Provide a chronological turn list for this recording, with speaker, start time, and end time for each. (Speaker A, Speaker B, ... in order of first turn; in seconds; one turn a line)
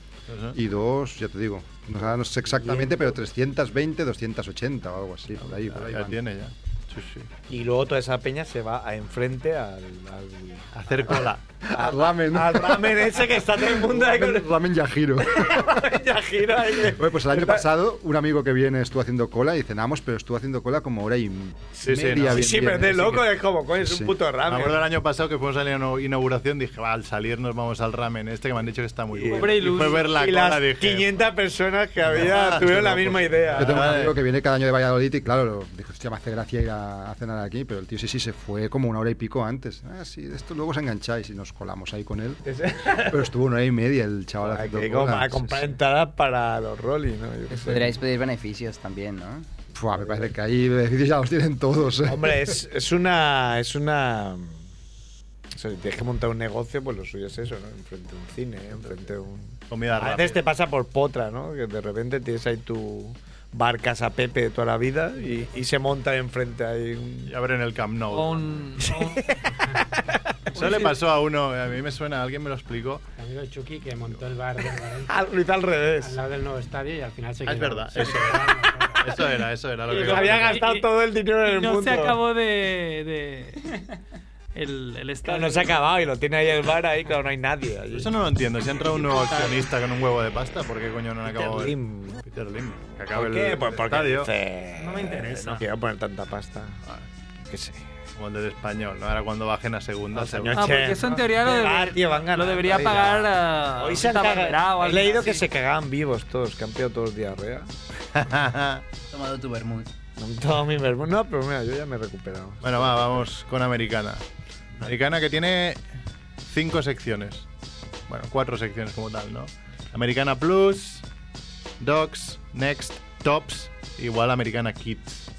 Speaker A: 0.3-0.6
Speaker B: 0.6-6.2
Speaker C: 2.5-2.9
Speaker A: 5.5-7.3
Speaker C: 7.5-10.9
Speaker A: 10.7-11.4
Speaker C: 11.7-14.5
Speaker B: 11.7-15.9
Speaker C: 15.2-17.6
Speaker B: 16.7-24.2
Speaker A: 21.8-22.8
Speaker C: 22.2-24.8
Speaker A: 24.5-31.2
Speaker C: 29.1-33.9
Speaker D: 29.3-30.1
Speaker A: 32.1-34.2
Speaker B: 33.6-42.4
Speaker C: 42.5-43.3
Speaker B: 43.0-45.7
Speaker C: 44.4-48.0
Speaker E: 47.5-49.5
Speaker B: 49.7-52.5
Speaker C: 52.1-54.6
Speaker C: 55.5-67.3
Speaker A: 59.7-60.5
Speaker A: 67.3-68.7
Speaker D: 68.1-69.5
Speaker C: 68.8-70.4
Speaker A: 70.5-73.0
Speaker D: 70.6-70.9
Speaker F: 73.2-75.2
Speaker C: 75.0-76.2
Speaker F: 76.0-79.3
Speaker A: 77.5-80.6
Speaker C: 79.9-82.2
Speaker D: 80.3-80.9
Speaker D: 81.4-83.8
Speaker D: 84.5-85.8
Speaker C: 85.2-88.1
Speaker A: 87.9-94.3
Speaker D: 89.2-89.5
Speaker C: 91.3-92.2
Speaker C: 93.1-96.8
Speaker D: 94.8-95.6
Speaker C: 97.4-97.9
Speaker A: 98.2-100.9
Speaker C: 100.1-107.7
Speaker D: 100.5-105.5
Speaker A: 108.1-108.8
Speaker E: 109.1-109.9
Speaker C: 110.2-113.0
Speaker A: 112.6-114.2
Speaker A: 114.8-115.8
Speaker A: 116.5-117.5
Speaker A: 118.1-121.0
Speaker A: 121.8-125.3